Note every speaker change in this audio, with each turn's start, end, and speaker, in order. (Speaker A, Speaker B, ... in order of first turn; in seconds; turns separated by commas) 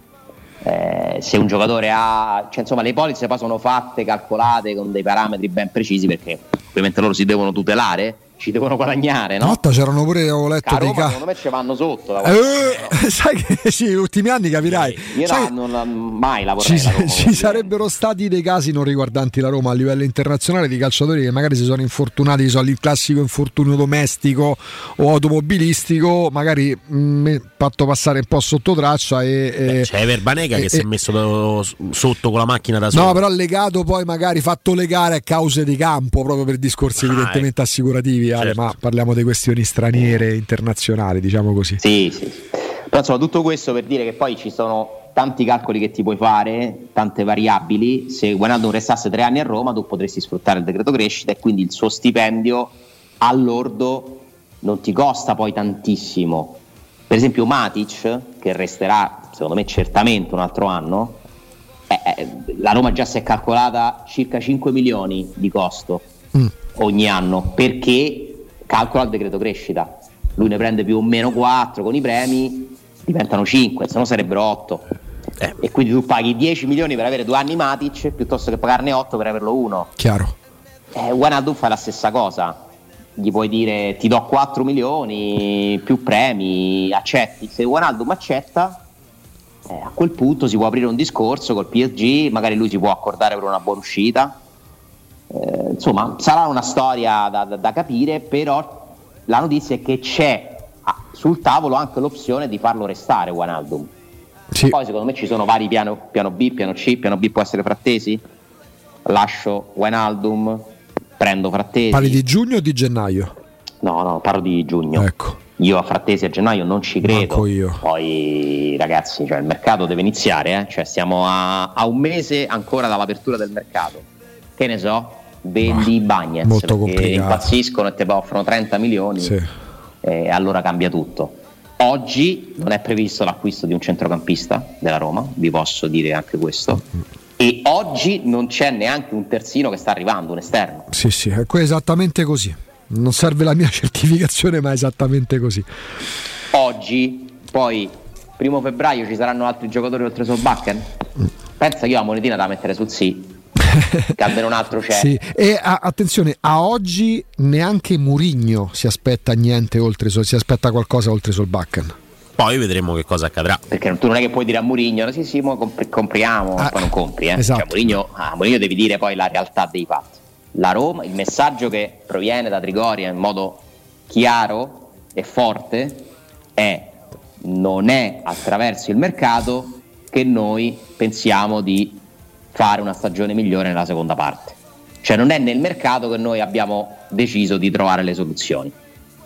Speaker A: 0.6-9.6, Speaker B: 9.4-11.2, Speaker A: 10.6-13.0, Speaker B: 12.2-15.5, Speaker C: 14.7-15.0, Speaker A: 15.1-17.7, Speaker B: 16.6-29.9, Speaker C: 29.7-33.2, Speaker B: 30.6-30.9, Speaker B: 32.9-41.8, Speaker C: 37.0-37.5, Speaker C: 38.4-38.7, Speaker A: 41.8-61.2, Speaker A: 61.9-66.1, Speaker A: 66.7-74.9, Speaker A: 75.6-79.9, Speaker B: 80.0-80.3, Speaker A: 80.9-82.6, Speaker A: 83.2-88.8, Speaker A: 89.7-94.4, Speaker A: 95.3-103.9, Speaker B: 104.5-104.8, Speaker A: 104.6-108.2, Speaker A: 109.1-112.2, Speaker B: 111.9-113.3, Speaker A: 113.8-129.4, Speaker B: 115.0-115.4, Speaker B: 117.0-117.8, Speaker B: 126.4-127.5, Speaker A: 130.0-136.8, Speaker A: 137.4-140.9, Speaker B: 140.9-145.7, Speaker A: 146.5-150.9, Speaker A: 151.6-153.4, Speaker B: 153.7-154.2, Speaker A: 154.1-155.1, Speaker B: 154.9-161.9, Speaker C: 162.4-163.6, Speaker A: 163.7-182.0, Speaker B: 166.6-167.7, Speaker A: 182.5-188.8